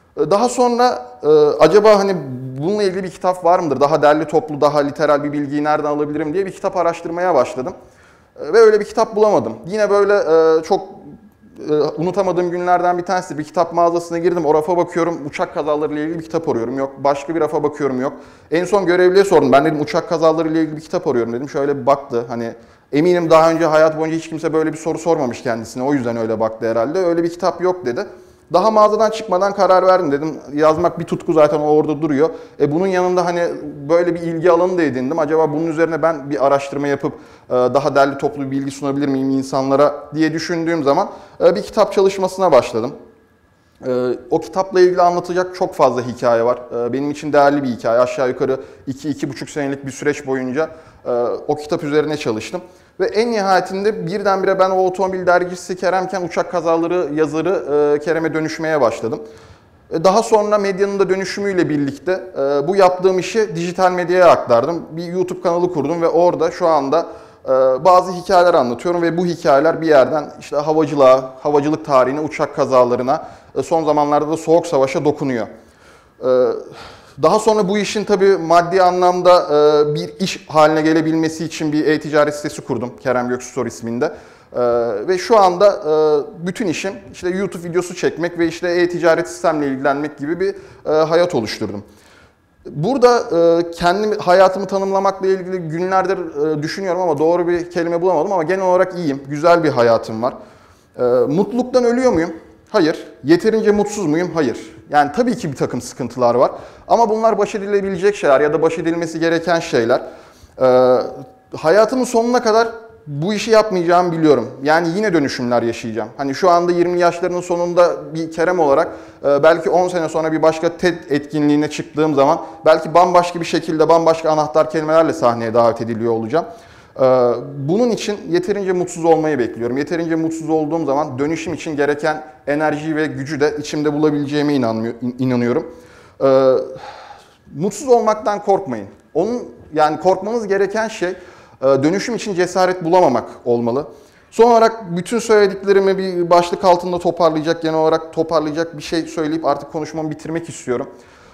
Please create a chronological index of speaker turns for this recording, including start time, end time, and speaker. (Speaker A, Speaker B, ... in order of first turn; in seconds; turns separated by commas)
Speaker A: 0.1-7.7, Speaker A: 8.4-42.9, Speaker A: 43.8-59.2, Speaker A: 59.9-75.5, Speaker A: 76.2-91.8, Speaker A: 92.7-100.3, Speaker A: 101.0-110.0, Speaker A: 110.6-136.9, Speaker A: 137.5-150.9